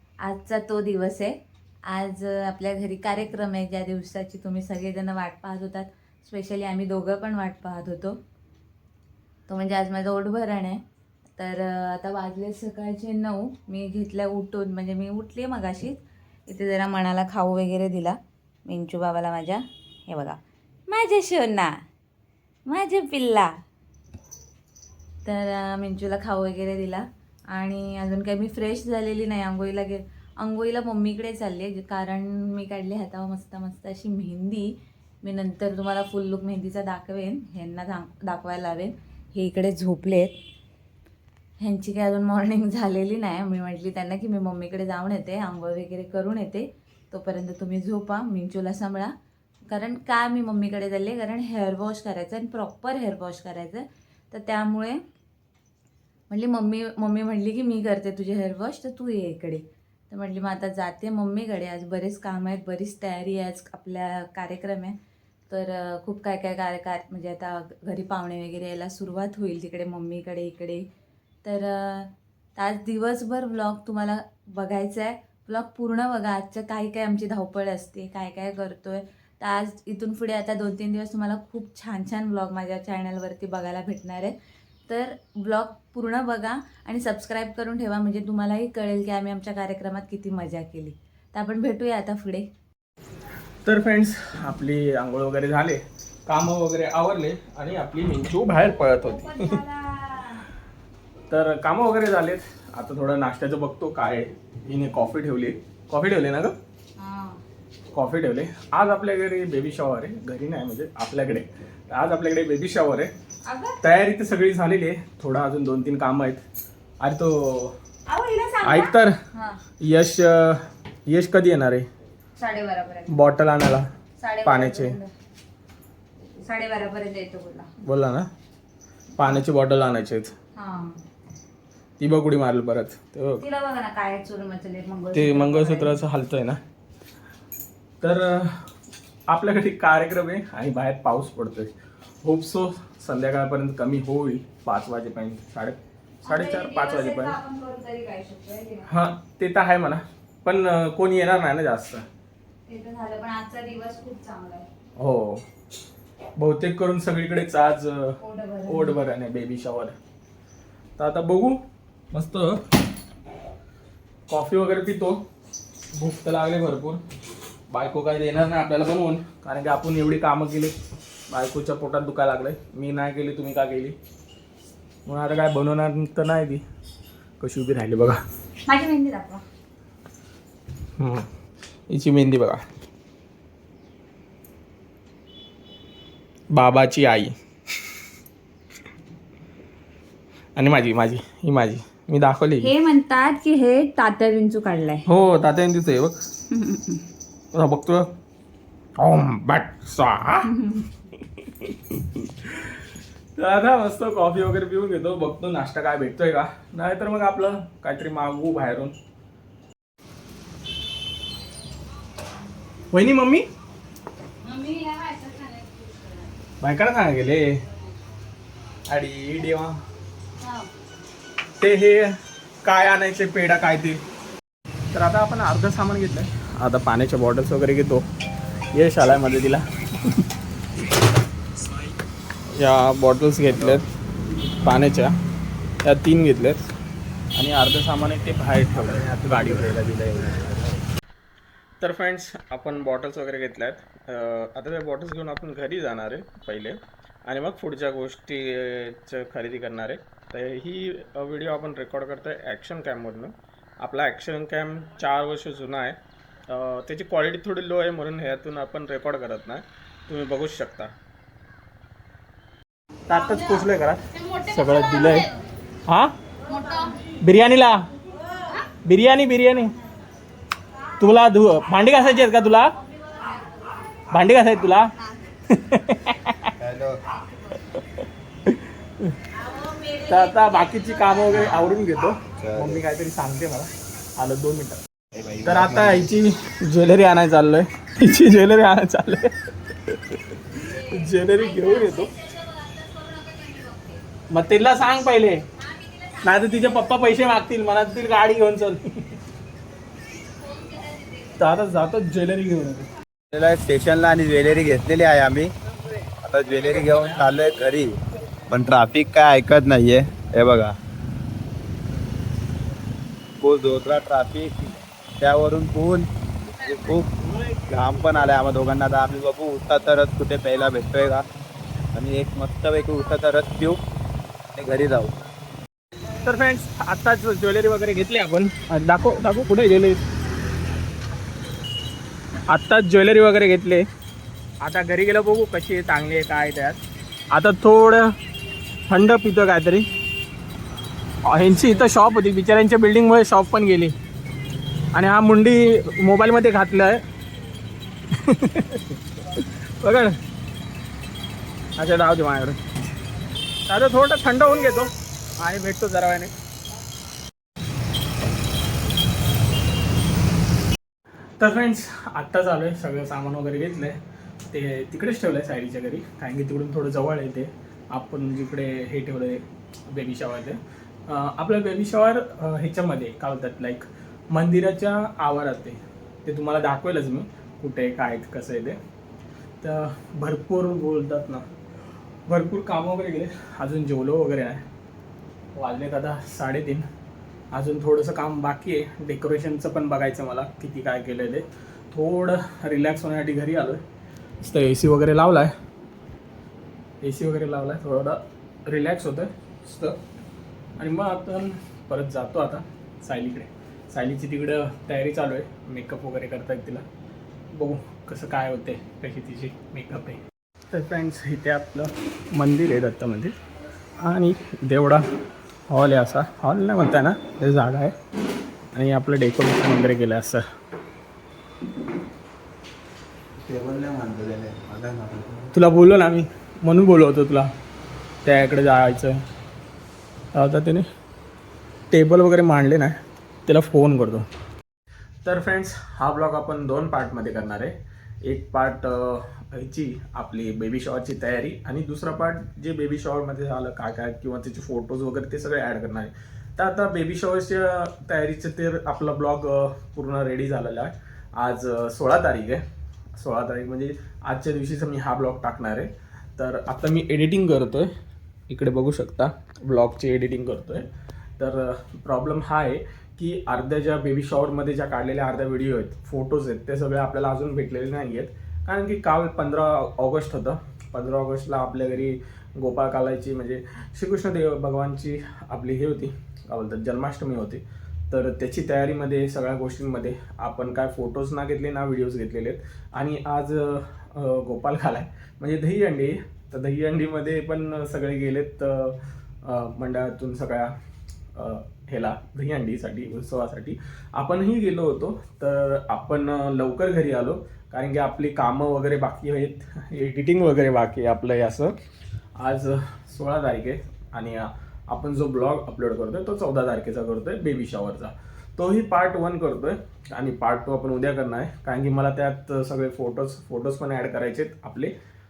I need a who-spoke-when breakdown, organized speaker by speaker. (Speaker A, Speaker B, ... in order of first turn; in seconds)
Speaker A: 0.2-1.3, 1.9-8.2, 9.5-10.8, 11.4-21.8, 22.7-23.6, 25.2-40.3, 41.6-49.1, 49.7-55.0, 56.3-65.0, 65.5-70.9, 71.4-84.3, 84.9-92.5, 98.9-100.5, 107.0-107.4, 113.5-113.8, 118.1-119.6, 122.4-123.1, 124.2-125.1, 126.4-127.7, 130.6-131.0, 133.4-136.0, 146.2-148.9, 152.7-154.7, 158.2-158.9, 178.7-179.4, 192.6-195.1, 196.5-197.0, 200.4-200.9, 214.4-216.1, 220.4-220.7, 266.5-266.9, 290.7-294.0, 300.4-301.3
Speaker B: 93.6-99.6, 101.3-106.6, 107.9-113.1, 113.8-116.4, 117.0-117.8, 118.6-119.1, 119.8-121.9, 123.1-123.9, 124.4-125.0, 127.8-128.3, 129.2-130.3, 132.0-133.4, 135.1-136.6, 138.0-138.6, 139.3-141.7, 142.2-147.4, 148.9-152.1, 155.0-155.4, 156.4-159.9, 161.0-162.6, 164.3-165.2, 165.9-167.0, 167.7-170.8, 171.3-173.9, 175.1-176.6, 177.4-178.2, 181.0-181.3, 181.9-182.6, 186.5-187.3, 190.6-192.7, 195.1-196.2, 197.5-198.1, 199.0-200.5, 201.6-202.8, 203.4-208.9, 212.9-213.5, 216.6-217.6, 218.9-219.8, 221.6-222.1, 222.6-224.0, 224.9-228.0, 228.7-230.2, 232.6-233.8, 234.6-235.1, 235.8-236.7, 237.3-240.7, 241.8-256.0, 256.5-260.9, 263.1-265.3, 265.9-266.1, 267.2-267.8, 268.8-269.8, 271.0-272.8, 274.1-274.9, 275.5-276.5, 278.5-279.1, 280.0-284.8, 285.4-289.3, 289.9-292.1, 294.3-295.4, 296.2-299.0, 301.4-302.9, 326.2-330.0, 332.5-333.9, 334.6-338.1, 338.9-339.9, 341.2-343.9, 344.9-347.0, 348.1-350.2, 351.8-352.6, 353.7-356.3, 361.4-364.0, 364.5-378.8, 379.6-381.4, 382.3-384.6, 385.6-386.9, 387.5-393.8, 394.4-395.5, 397.0-400.0, 400.8-406.8, 407.5-410.2, 410.7-413.3, 414.0-415.1, 415.7-417.9, 418.7-420.4, 425.5-427.5, 428.2-429.2, 430.3-430.9, 431.9-434.3, 435.2-452.6, 453.1-457.9, 458.5-460.9, 461.4-490.7, 491.4-501.8, 502.4-514.9
Speaker C: 276.6-277.0, 282.4-282.8, 285.2-286.1, 303.3-305.5, 306.2-307.9, 308.5-310.7, 313.4-316.1, 316.6-317.1, 317.7-321.2, 321.9-323.8, 324.5-325.1, 423.4-425.5